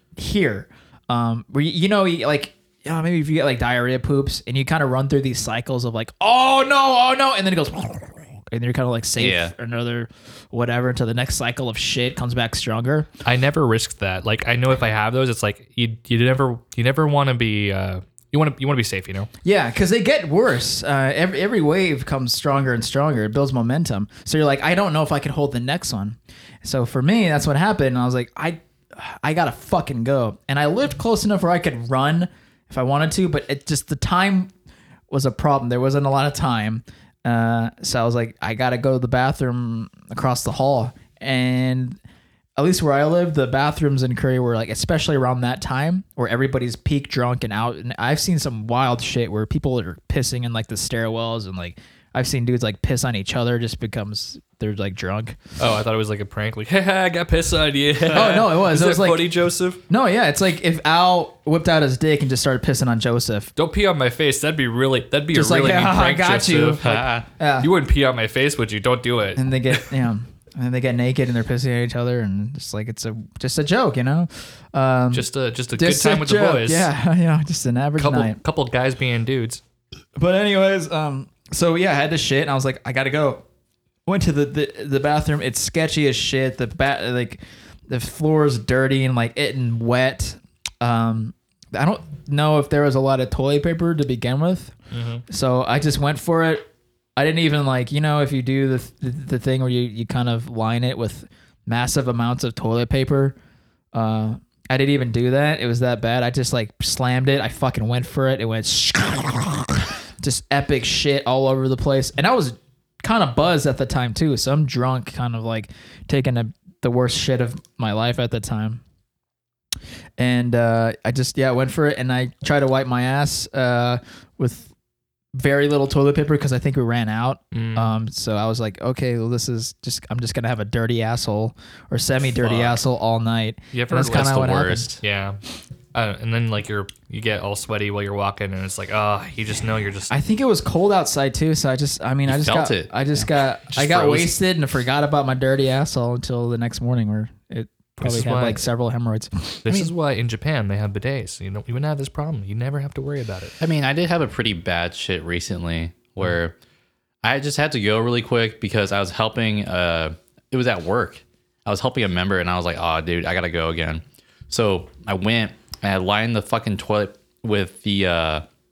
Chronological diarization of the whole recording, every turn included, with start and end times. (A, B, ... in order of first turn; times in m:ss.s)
0:00.2-0:13.1 A
0:09.2-0:09.5 B
0:13.2-0:19.3 C
0:19.4-0:34.5 A
0:35.1-0:42.0 A
0:42.6-0:55.4 A
0:55.6-0:59.8 C
0:58.1-0:59.3 A
0:59.9-1:03.5 A
1:03.6-1:06.8 C
1:05.3-1:07.7 A
1:06.8-1:07.3 B
1:07.6-1:09.5 C
1:09.4-1:18.4 A
1:15.1-1:16.9 C
1:18.0-1:19.6 C
1:20.2-1:23.4 A
1:24.1-1:34.8 A
1:34.9-1:35.2 C
1:35.3-1:43.4 A
1:43.9-1:58.8 A
2:00.2-2:04.7 A
2:05.3-2:14.9 A
2:07.5-2:08.0 C
2:13.7-2:14.4 C
2:14.0-2:15.0 B
2:15.0-2:15.4 C
2:15.9-2:20.1 C
2:20.1-2:29.6 A
2:22.3-2:24.4 B
2:28.0-2:28.7 C
2:29.6-2:33.6 C
2:33.6-2:36.6 B
2:37.2-2:48.4 B